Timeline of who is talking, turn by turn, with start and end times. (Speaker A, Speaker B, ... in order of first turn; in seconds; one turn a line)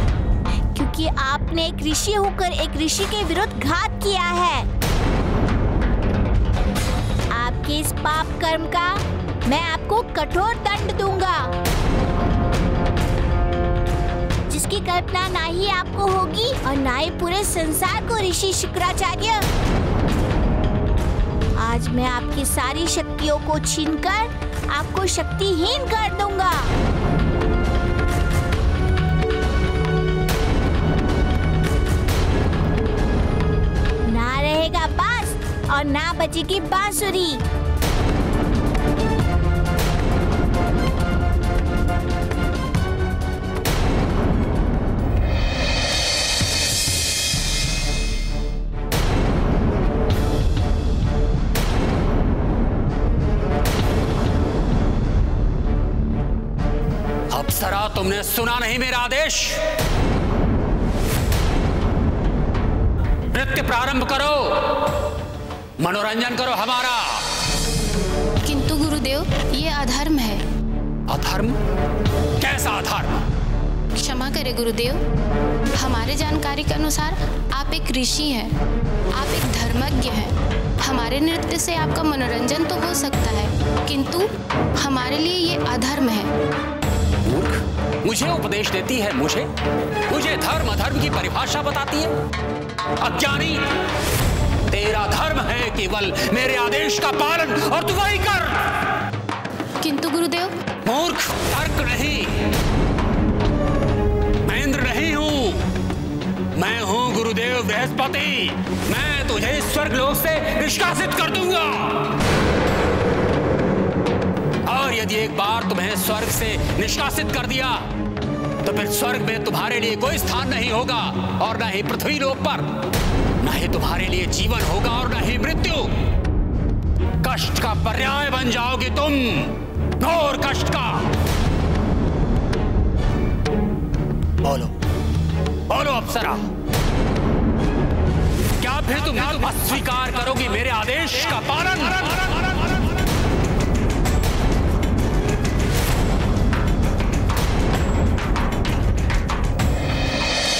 Speaker A: 0.7-4.7
Speaker A: 7.3-11.5
Speaker A: 14.5-19.4
Speaker A: 21.6-26.7
Speaker A: 34.1-37.4
Speaker B: 57.3-59.6
Speaker B: 63.3-64.9
Speaker B: 65.8-67.3
Speaker C: 68.4-70.4
Speaker B: 71.1-71.6
Speaker B: 72.4-73.3
Speaker C: 74.0-75.0
Speaker C: 75.8-78.5
Speaker C: 79.2-86.3
Speaker B: 87.2-89.5
Speaker B: 90.1-92.1
Speaker B: 93.0-93.7
Speaker B: 94.7-98.8
Speaker C: 99.8-100.6
Speaker B: 100.8-102.4
Speaker B: 104.5-105.6
Speaker B: 106.6-112.2
Speaker B: 114.7-117.8
Speaker B: 118.6-122.7
Speaker B: 123.4-125.9
Speaker B: 127.2-131.0
Speaker B: 134.4-134.7
Speaker B: 135.7-136.5
Speaker B: 138.6-142.3